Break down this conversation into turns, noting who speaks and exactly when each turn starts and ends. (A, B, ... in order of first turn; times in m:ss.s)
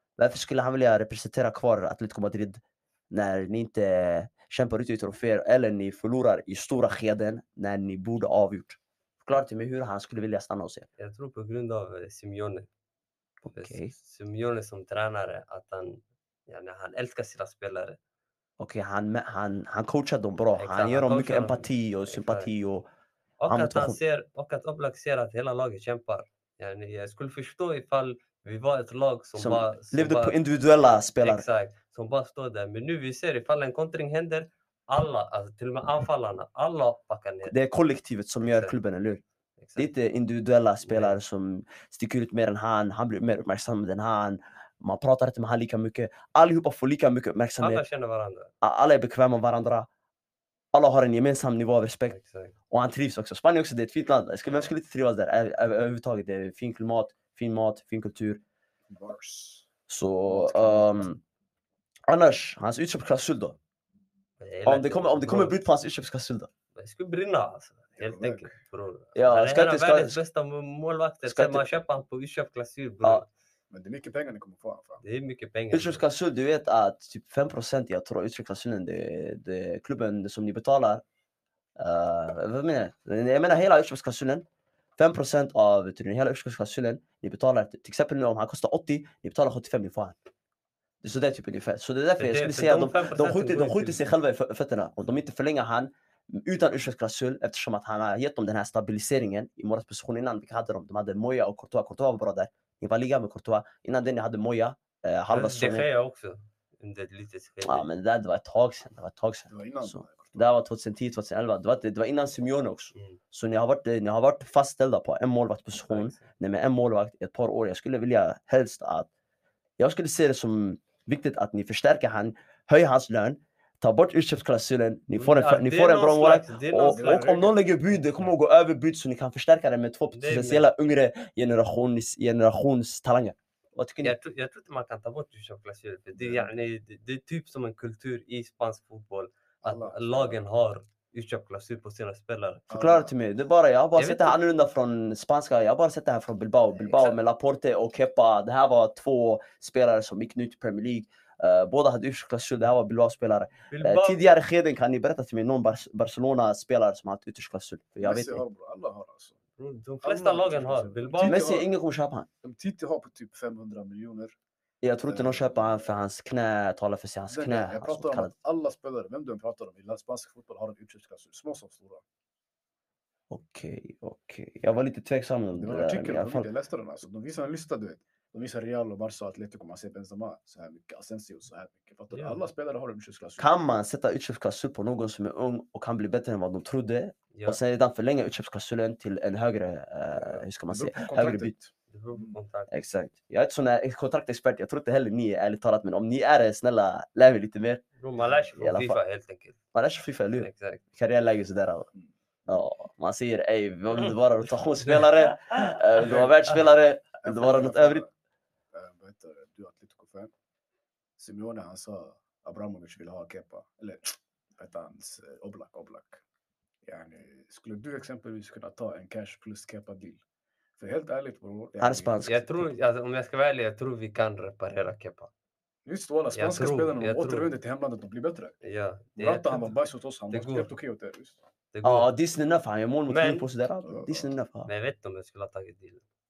0:00.2-0:10.9 A
0:11.0-0:12.7 B
0:13.4-0:13.9 A
0:13.5-0:18.0 B
0:18.6-0:22.8 A
0:20.6-0:22.5 B
0:23.4-0:30.4 B
0:23.5-0:24.0 A
0:29.4-0:31.4 A
0:31.2-0:37.5 B
0:37.4-0:39.2 A
0:38.4-0:38.7 B
0:39.6-0:39.9 B
0:39.8-0:47.8 A
0:40.8-0:41.2 B
0:47.6-0:48.5 B
0:48.6-0:49.9 A
0:50.7-0:52.2 A
0:52.1-0:52.5 B
0:52.7-0:58.4 A
0:58.9-0:59.6 C
0:59.9-1:01.2 A
1:00.3-1:01.1 C
1:02.1-1:03.6 A
1:04.4-1:05.6 B
1:04.6-1:06.5 A
1:06.7-1:13.3 B
1:08.0-1:08.5 C
1:09.1-1:10.2 A
1:11.2-1:11.6 A
1:13.7-1:15.0 C
1:15.0-1:16.0 B
1:15.7-1:21.0 A
1:21.8-1:24.4 A
1:25.0-1:30.2 A
1:31.0-1:45.9 A
1:32.2-1:34.0 B
1:45.3-1:47.8 B
1:47.6-1:59.1 A
1:49.5-1:50.5 C
1:52.9-1:53.2 B
1:55.9-1:56.3 B
1:59.8-2:14.1 A
2:05.2-2:08.3 B
2:06.8-2:07.6 C
2:10.1-2:10.7 B
2:14.0-2:22.6 B
2:16.1-2:16.5 C
2:19.6-2:20.4 C
2:22.7-2:23.1 C
2:22.7-2:38.4 A
2:24.0-2:24.4 B
2:33.7-2:34.2 B
2:38.0-2:39.4 C
2:39.6-2:41.5 B
2:40.0-2:41.7 C
2:41.2-2:42.3 A
2:42.4-2:44.4 C
2:44.8-2:48.3 A
2:45.1-2:46.0 C
2:47.3-2:52.0 C
2:53.3-2:56.5 A
2:55.5-3:03.6 C
3:02.1-3:02.4 B
3:03.4-3:11.5 A
3:07.3-3:07.6 B
3:10.1-3:12.4 C
3:11.9-3:12.7 B
3:12.7-3:17.8 A
3:18.0-3:19.6 B
3:18.2-3:18.5 C
3:18.6-3:19.0 A
3:19.7-3:21.9 A
3:20.4-3:20.8 B
3:22.5-3:28.0 A
3:26.0-3:26.4 C
3:27.2-3:28.1 C
3:28.7-3:30.3 C
3:31.2-3:36.2 C
3:36.8-3:40.2 C
3:40.8-3:42.4 C
3:41.8-3:42.7 A
3:42.2-3:45.3 B
3:45.8-3:48.5 C
3:46.3-3:47.5 B
3:48.6-3:49.8 B
3:49.2-3:51.4 C
3:50.3-3:50.7 B
3:51.7-3:52.1 B
3:51.8-3:54.7 A
3:53.1-3:53.5 B
3:53.8-3:54.3 C
3:54.7-3:56.0 B